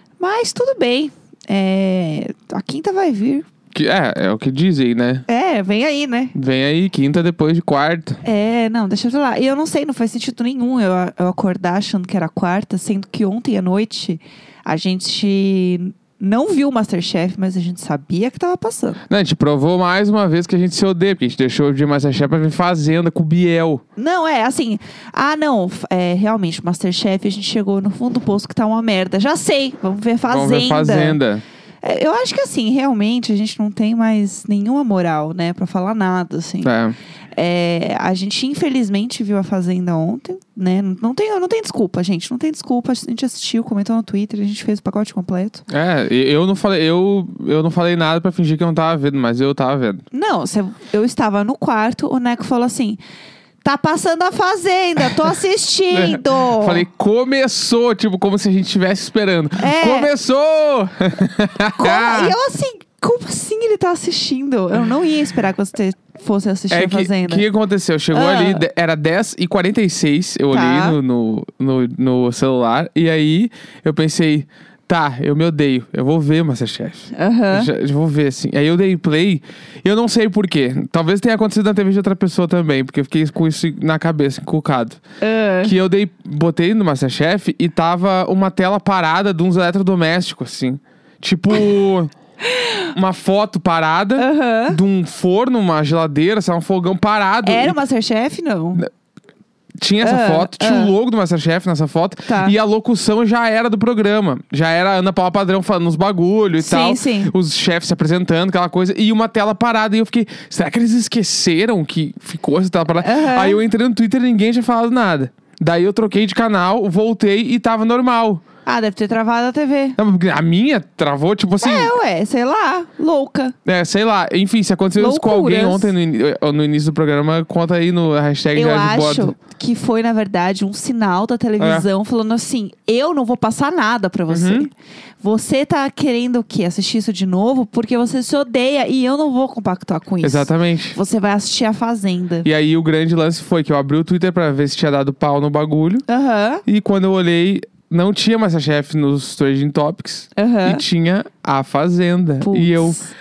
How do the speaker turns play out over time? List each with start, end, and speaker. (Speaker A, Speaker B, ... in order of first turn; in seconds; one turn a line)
Speaker A: 0.2-3.5
Speaker B: 3.7-5.2
Speaker A: 5.3-6.3
Speaker B: 6.3-8.2
Speaker A: 8.2-19.0
Speaker B: 19.1-23.8
Speaker A: 23.9-31.2
Speaker B: 30.3-31.4
Speaker A: 31.8-36.7
Speaker B: 36.6-36.9
Speaker A: 37.4-45.6
Speaker B: 45.7-50.0
Speaker A: 50.1-53.0
Speaker A: 53.6-56.8
Speaker B: 55.9-62.3
Speaker A: 59.6-60.1
Speaker A: 61.8-67.5
Speaker B: 66.7-85.0
Speaker A: 68.1-68.6
Speaker A: 70.5-71.0
Speaker A: 77.1-77.7
Speaker A: 85.2-85.7
Speaker B: 85.6-92.1
Speaker A: 92.5-92.8
Speaker B: 92.9-97.8
Speaker A: 94.2-94.8
Speaker A: 97.4-98.8
Speaker B: 99.8-118.4
Speaker A: 100.0-100.9
Speaker A: 102.3-102.5
Speaker A: 106.6-107.3
Speaker A: 113.0-113.6
Speaker A: 118.6-120.0
Speaker B: 120.0-121.9
Speaker A: 121.6-123.5
Speaker B: 123.6-129.3
Speaker A: 125.0-125.9
Speaker A: 128.5-142.5
Speaker B: 131.6-131.8
Speaker B: 134.3-134.7
Speaker B: 140.2-141.0
Speaker B: 142.4-146.0
Speaker A: 146.1-146.6
Speaker B: 146.7-153.0
Speaker A: 150.3-150.8
Speaker A: 152.4-153.1